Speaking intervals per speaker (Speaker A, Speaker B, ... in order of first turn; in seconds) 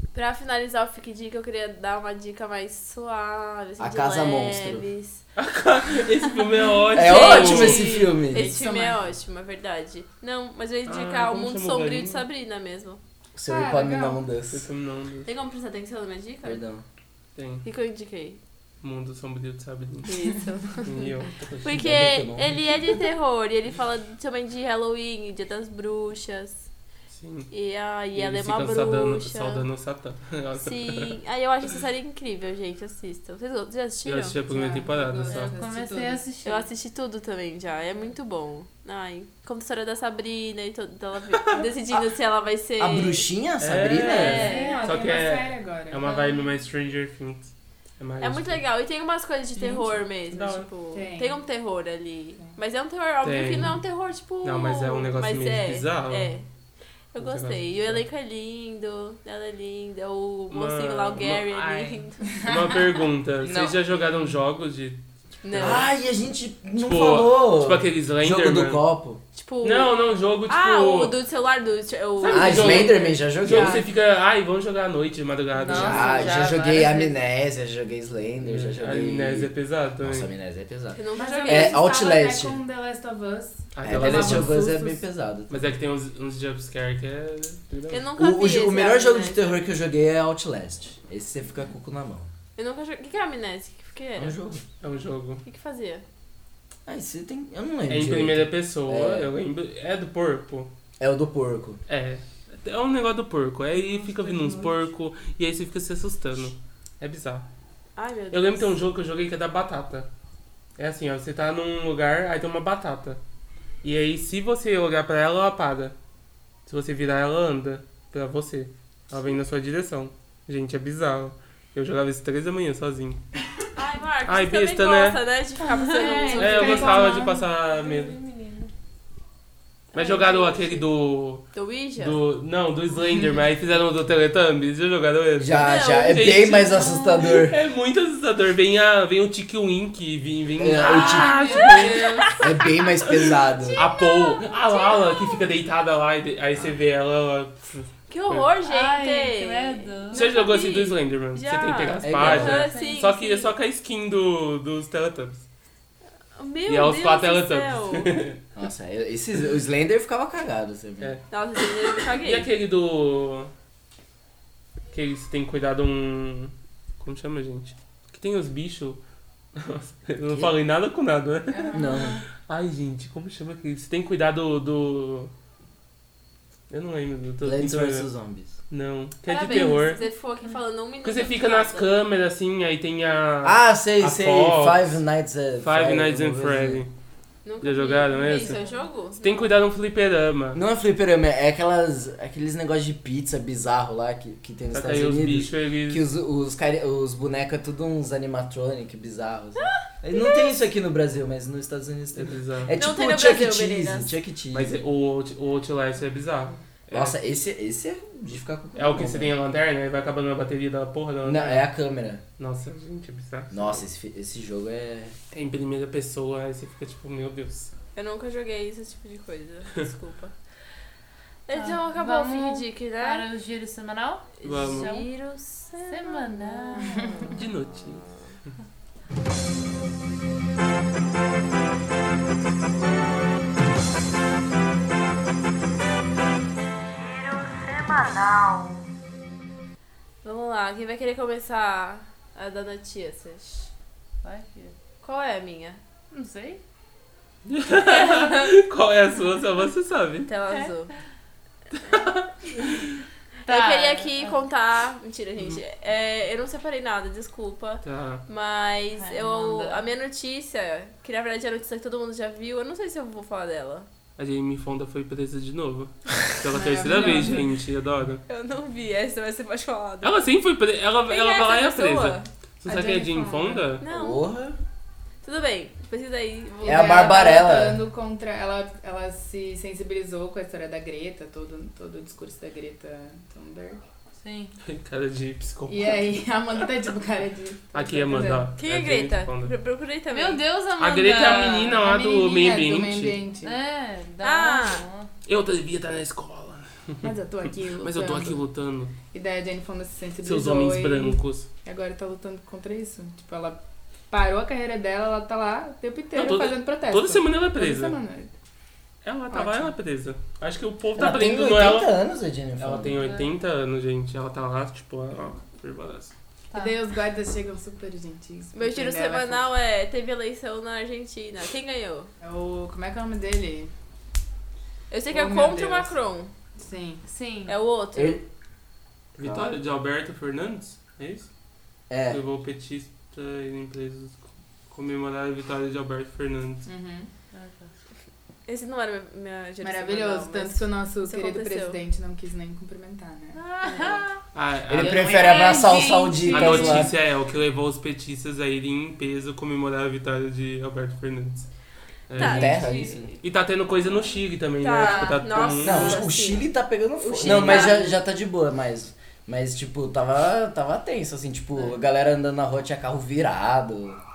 Speaker A: 0.1-5.2, 6.8-13.0, 15.3-16.6, 17.6-18.4, 20.1-26.7, 27.5-29.7, 30.6-34.4, 36.4-43.3, 44.0-44.8, 48.2-56.5, 57.1-62.4, 65.4-65.9, 69.3-70.0, 70.5-73.7, 81.0-81.9, 87.9-89.6, 92.6-94.4, 95.5-96.0, 108.0-108.8, 123.8-127.0, 129.9-130.9, 131.5-132.2, 135.6-136.2, 141.1-145.5, 148.1-153.5, 156.3-158.2, 161.3-162.5, 179.3-181.9, 187.4-189.5, 199.6-200.6, 202.7-204.2, 217.9-220.3, 221.5-223.3, 224.4-227.1, 236.9-238.7, 240.2-243.7, 245.0-245.8, 250.3-250.9, 253.5-263.9, 268.3-270.3, 271.1-272.3, 273.8-274.2, 275.2-277.5, 288.6-290.4, 294.2-294.9, 318.5-322.1, 324.9-326.3, 327.5-328.2, 338.5-341.8, 352.1-352.6, 354.6-358.0
Speaker B: 3.8-4.9, 6.9-8.5, 13.3-14.7, 16.4-16.8, 21.6-22.6, 42.8-44.5, 63.4-63.7, 65.6-69.2, 72.3-73.8, 75.7-82.6, 83.8-85.8, 88.2-92.3, 94.2-94.6, 96.9-99.3, 101.0-101.8, 135.4-137.6, 140.6-141.3, 142.4-143.8, 152.0-152.7, 158.6-161.2, 170.3-170.5, 171.7-172.2, 177.4-178.6, 183.4-186.8, 190.5-204.7, 206.9-209.3, 211.2-212.2, 213.5-215.2, 273.9-274.6, 276.6-277.8, 311.0-313.0, 327.9-328.2, 329.2-329.5, 331.9-332.2, 344.7-346.9, 352.2-353.1, 355.6-364.0
Speaker C: 5.4-8.0, 10.9-12.2, 14.5-15.3, 17.4-17.6, 18.8-20.1, 20.8-21.8, 27.1-27.5, 28.1-31.2, 34.0-35.5, 43.6-48.6, 50.3-50.7, 53.2-53.8, 54.4-56.3, 57.2-58.0, 60.5-65.9, 66.8-68.8, 69.6-71.1, 72.2-76.4, 78.4-80.3, 83.7-84.6, 85.5-88.1, 94.8-95.4, 97.9-100.7, 101.9-107.5, 108.3-110.1, 110.8-113.2, 113.8-116.0, 116.7-123.2, 124.3-125.2, 126.3-128.2, 129.9-131.4, 132.0-142.3, 143.8-148.5, 150.1-155.5, 156.7-158.4, 162.2-163.5, 164.9-169.0, 169.6-171.8, 172.5-175.3, 176.7-178.1, 178.7-180.0, 181.0-185.0, 185.6-186.9, 187.6-188.6, 189.2-190.6, 194.7-196.1, 202.1-202.8, 204.5-207.2, 208.8-211.7, 212.4-213.8, 215.3-217.7, 224.4-224.9, 227.3-228.5, 247.5-250.3, 251.7-253.0, 257.8-258.2, 264.2-268.2, 270.0-273.8, 284.6-286.3, 287.7-289.5, 290.8-293.2, 295.3-298.9, 300.2-301.5, 306.1-308.0, 309.0-311.9, 312.6-316.1, 329.2-331.3, 332.1-336.7, 344.3-345.6, 346.3-351.5, 352.1-356.0, 357.2-357.7
Speaker D: 8.3-9.0, 13.5-14.2, 34.5-36.2, 44.4-46.1, 49.6-49.9, 50.9-51.4, 81.2-85.0, 103.8-104.7, 126.3-127.4, 171.5-172.2, 226.8-227.2, 266.5-267.5, 272.7-273.7, 276.6-283.8, 285.7-288.5, 291.8-293.6, 297.0-298.4, 299.1-308.3, 309.3-309.7, 316.6-319.5, 322.2-323.7, 325.1-325.9, 326.6-327.1, 336.7-337.1, 339.6-344.0
Speaker E: 35.3-36.7, 44.5-45.0, 46.0-46.5, 75.5-77.1, 125.6-128.7, 140.8-142.4, 148.6-150.3, 152.3-153.1, 221.5-225.1, 225.9-227.4, 237.9-238.8, 244.2-244.8, 246.1-246.6, 253.5-254.4, 259.0-259.8, 284.2-284.6, 290.1-291.8, 293.4-295.1, 313.0-313.3, 316.5-316.8, 327.1-327.6, 337.3-337.7, 343.4-344.2, 344.8-346.9, 352.4-353.2, 354.8-355.6